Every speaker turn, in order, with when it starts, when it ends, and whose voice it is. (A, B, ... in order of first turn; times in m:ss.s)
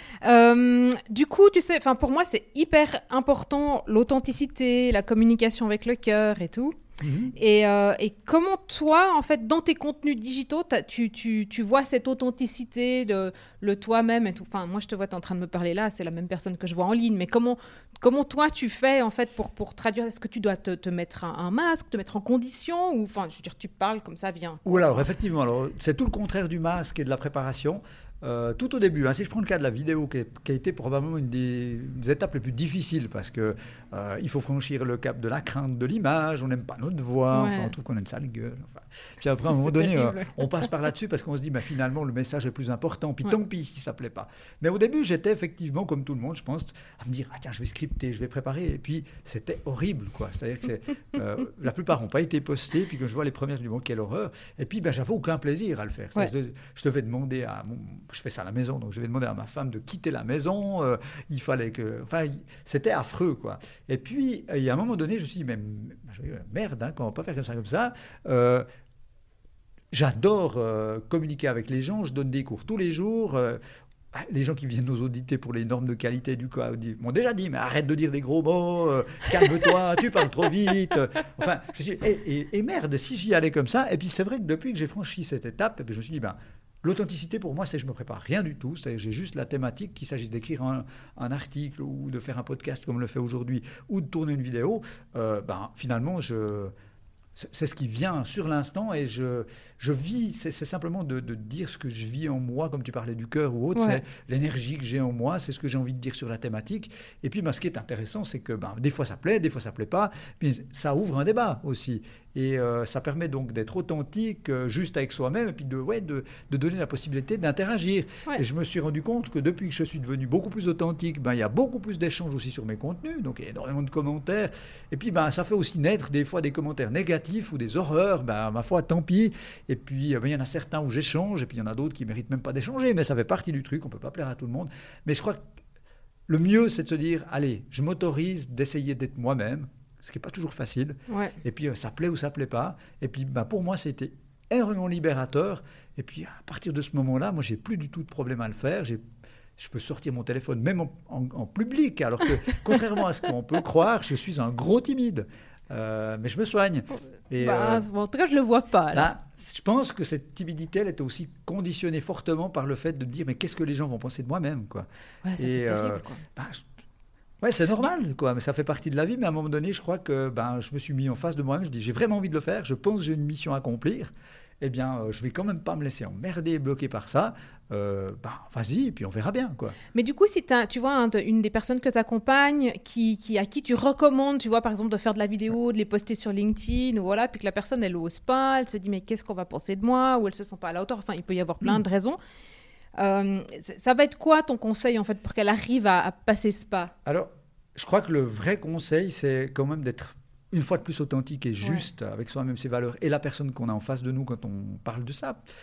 0:00.2-0:06.8 A
0:07.0-0:07.3 B
0:07.4-0:25.1 A
0:24.6-1:08.6 B
0:37.3-0:37.7 A
0:39.5-0:40.4 A
1:09.9-1:13.6 B
1:14.1-1:36.7 B
1:37.4-2:15.4 B
1:43.7-1:44.0 A
2:16.3-2:29.0 B
2:21.1-2:21.4 A
2:29.6-2:37.8 B
2:37.4-2:39.1 A
2:38.9-2:44.9 B
2:45.2-2:46.2 A
2:45.4-2:46.6 B
2:47.4-2:59.8 B
2:59.9-3:12.2 A
3:12.9-3:16.9 A
3:17.0-3:25.4 B